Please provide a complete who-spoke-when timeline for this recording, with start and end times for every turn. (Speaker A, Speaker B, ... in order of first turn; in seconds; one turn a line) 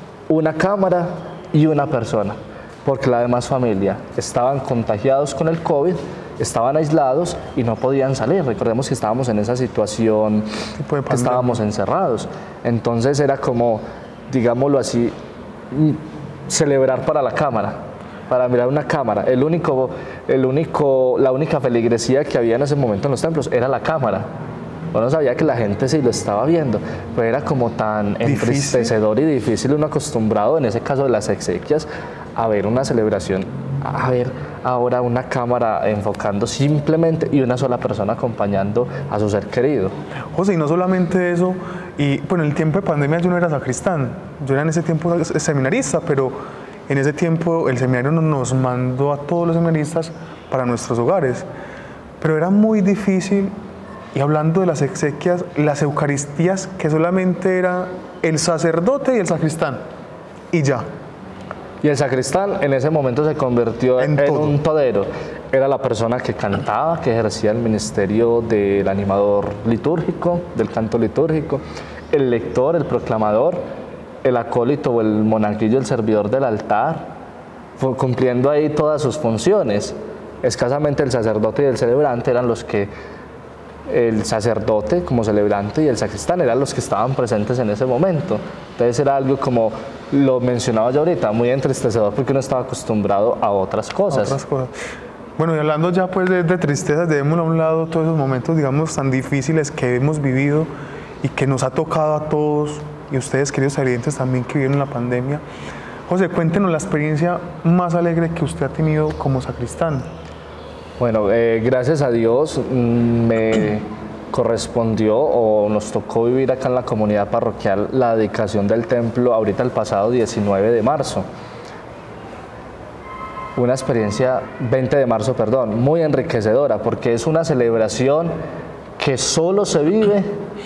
Speaker A: 0.3-10.5
Speaker B: 10.8-11.6
Speaker A: 11.1-15.1
Speaker A: 15.7-24.3
Speaker A: 24.9-40.0
Speaker B: 28.2-28.9
Speaker B: 40.3-51.5
Speaker B: 52.2-53.5
Speaker B: 54.1-59.8
Speaker B: 60.5-60.9
Speaker A: 61.8-73.6
Speaker B: 64.0-64.6
Speaker A: 74.2-77.1
Speaker A: 77.8-82.9
Speaker A: 83.9-94.4
Speaker B: 94.1-94.7
Speaker B: 95.4-100.7
Speaker B: 101.2-105.4
Speaker B: 106.1-110.1
Speaker A: 111.0-121.3
Speaker A: 123.6-128.3
Speaker A: 129.0-130.3